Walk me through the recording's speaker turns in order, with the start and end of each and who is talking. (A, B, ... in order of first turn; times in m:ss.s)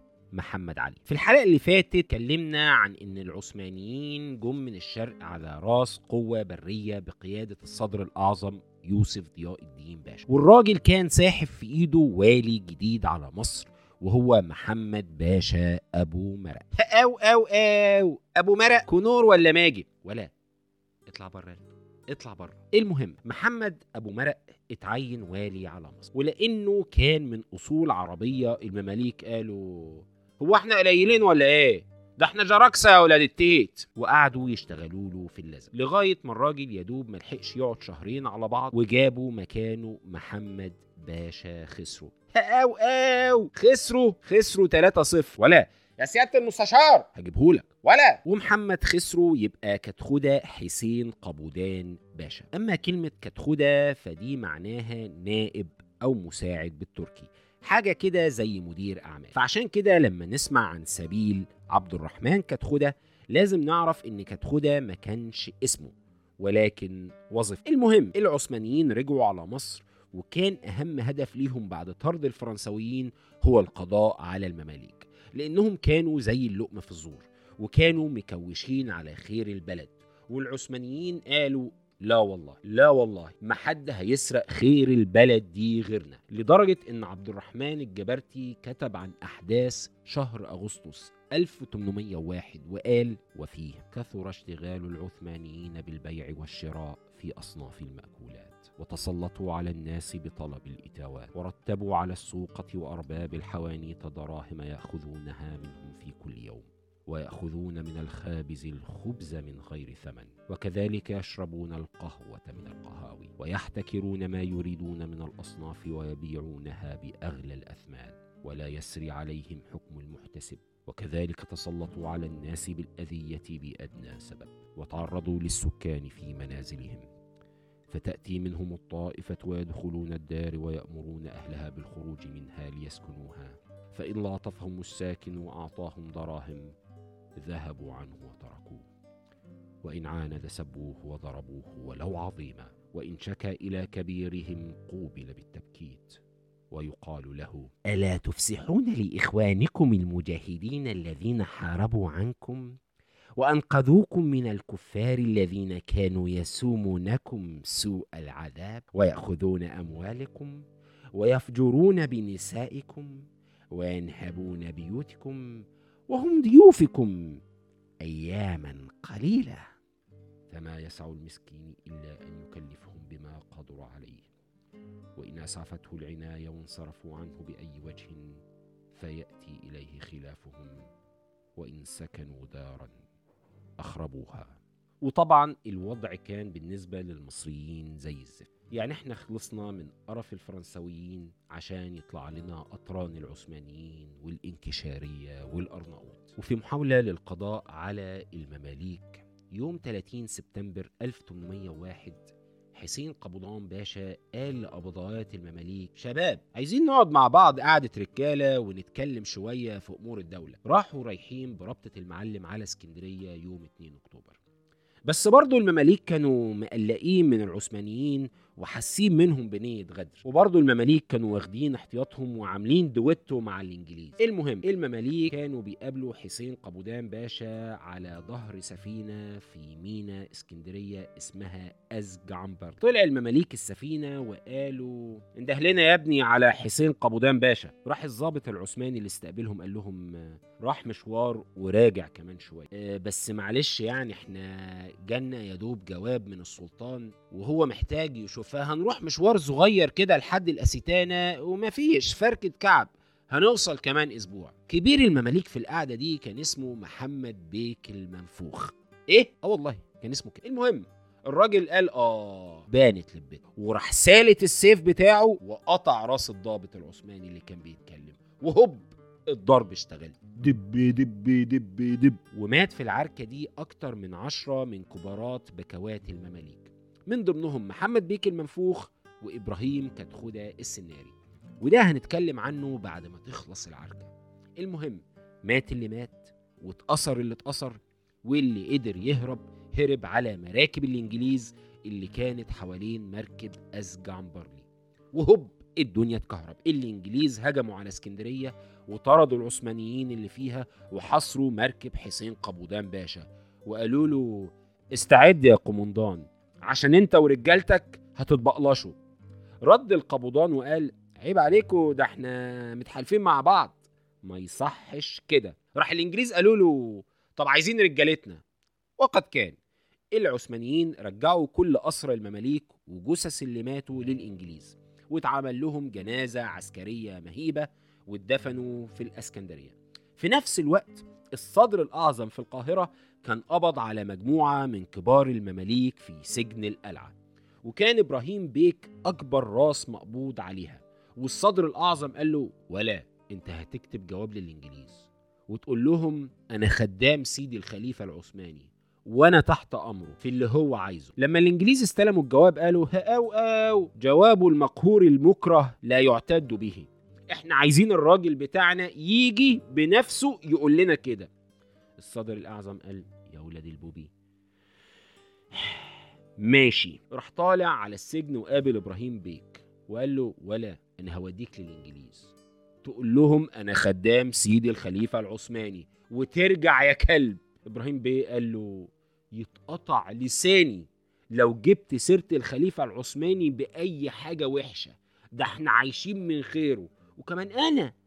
0:00.3-0:20.3 A
0:21.1-2:07.1 A
2:07.9-2:16.7 A
2:17.4-2:18.9 A
2:19.8-2:26.2 A
2:26.7-2:32.8 A
2:33.4-2:40.6 A
2:41.1-2:47.4 A
2:48.0-2:49.6 A
2:50.5-2:54.3 A
2:55.2-2:58.4 A
2:58.9-3:00.9 A
3:01.6-3:03.0 A
3:03.8-3:22.2 A
3:22.8-3:34.4 A
3:35.1-5:09.0 A
5:09.6-5:18.4 A
5:19.0-5:19.6 A
5:20.1-5:37.1 A
5:37.6-6:01.3 A
6:02.0-6:04.1 A
6:05.5-6:27.9 A